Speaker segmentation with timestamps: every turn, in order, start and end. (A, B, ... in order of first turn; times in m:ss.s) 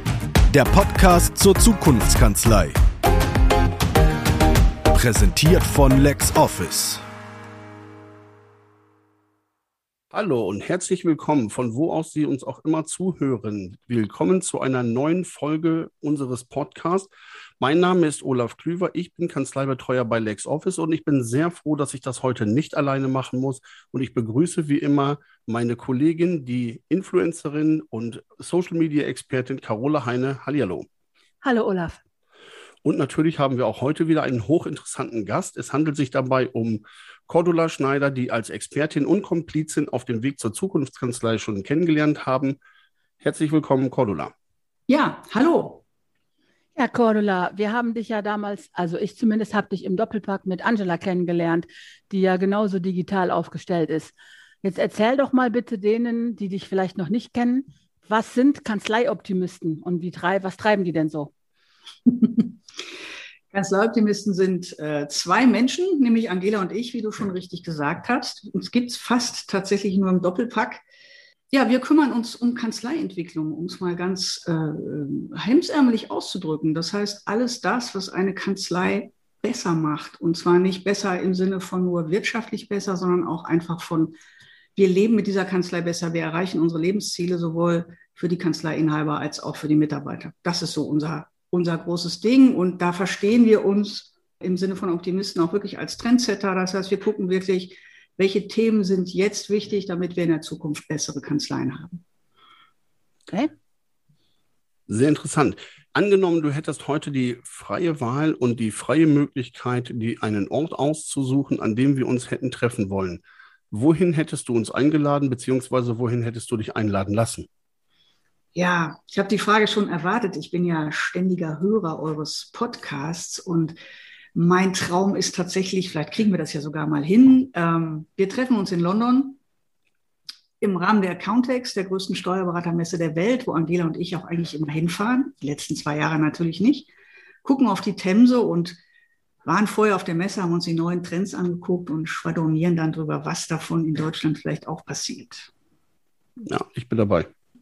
0:00.5-0:02.8 A
0:04.9-0:07.0 A
0:10.1-0:17.1 B
0:17.6-0:30.9 B
0:31.4-0:32.0 C
0:32.8-0:42.6 B
0:43.2-0:44.3 B
0:44.9-0:45.8 D
0:46.8-1:01.3 C
1:02.1-1:02.5 D
1:03.5-1:10.8 D
1:11.5-1:24.1 D
1:24.8-1:42.0 D
1:44.9-1:57.5 B
1:58.5-2:03.8 D
2:04.3-2:09.4 D
2:10.6-2:16.9 D
2:17.4-2:18.8 D
2:19.4-2:25.5 D
2:26.4-2:27.3 B